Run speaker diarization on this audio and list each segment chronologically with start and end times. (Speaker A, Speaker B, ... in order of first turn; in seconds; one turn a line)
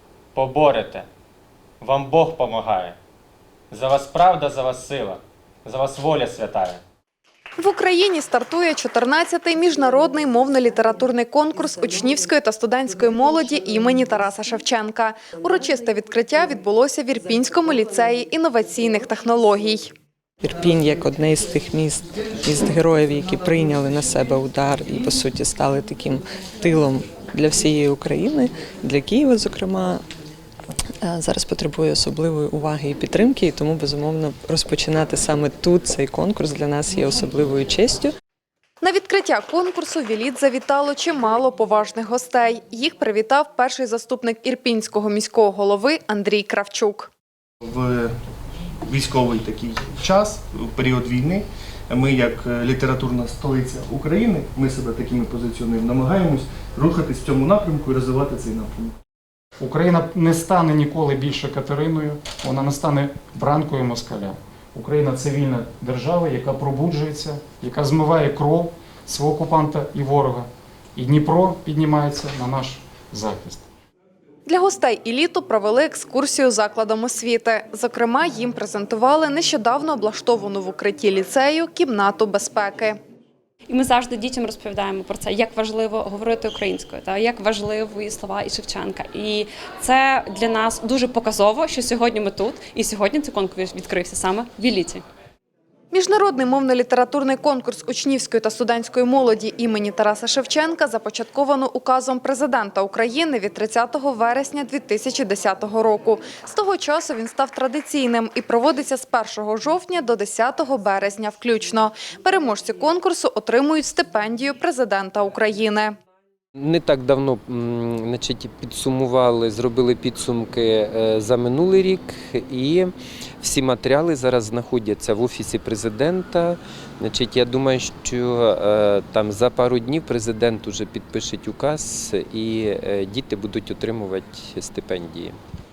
Speaker A: 0.3-1.1
Speaker A: 1.8-2.9
Speaker A: 3.7-6.8
Speaker B: 7.6-19.9
Speaker C: 20.4-30.0
Speaker C: 31.0-38.1
Speaker B: 38.8-47.1
Speaker D: 47.6-48.1
Speaker D: 48.9-58.9
Speaker E: 59.6-73.6
Speaker B: 74.5-83.0
Speaker F: 83.7-95.0
Speaker B: 95.9-115.9
Speaker G: 116.6-135.3